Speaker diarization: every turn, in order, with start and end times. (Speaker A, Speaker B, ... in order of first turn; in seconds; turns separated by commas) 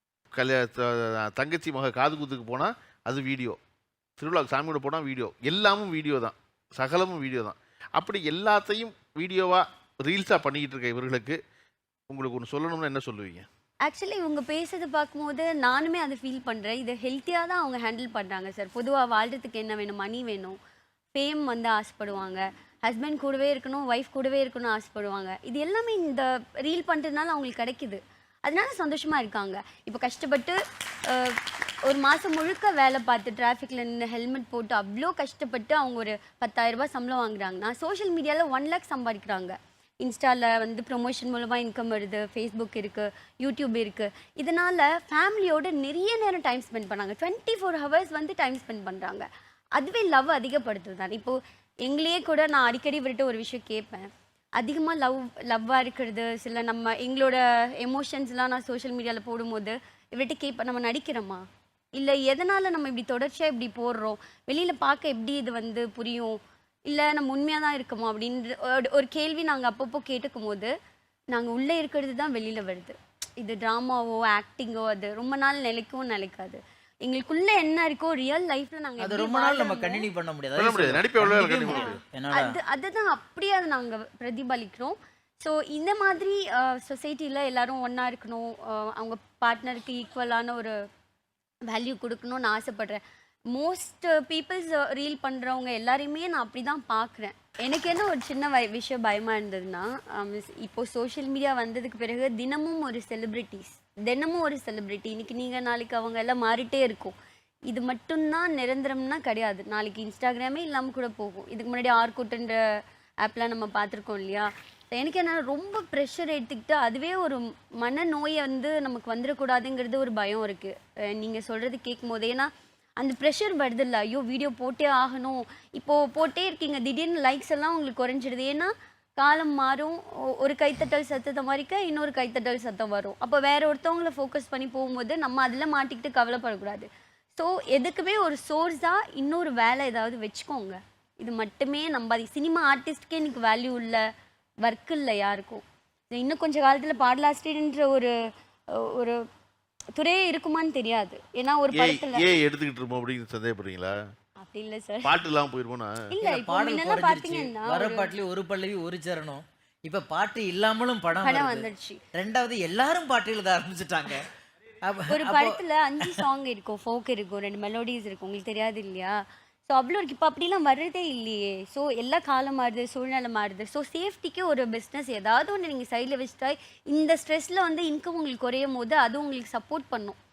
Speaker A: 0.3-3.6, Speaker A: 4.2-11.4, Speaker A: 12.1-13.4, Speaker B: 13.8-20.6, Speaker B: 21.1-61.4, Speaker B: 62.0-70.7, Speaker B: 71.3-80.1, Speaker C: 79.0-82.5, Speaker A: 80.6-82.0, Speaker B: 81.7-90.7, Speaker B: 91.7-93.0, Speaker B: 93.5-107.1, Speaker B: 107.7-112.6, Speaker B: 113.2-144.0, Speaker B: 144.6-148.1, Speaker B: 148.7-149.2, Speaker B: 150.0-152.4, Speaker A: 151.7-154.0, Speaker B: 154.4-155.1, Speaker A: 155.0-156.1, Speaker B: 156.1-158.1, Speaker C: 156.2-164.2, Speaker B: 161.2-162.0, Speaker C: 164.8-165.6, Speaker B: 165.1-169.2, Speaker B: 169.7-180.2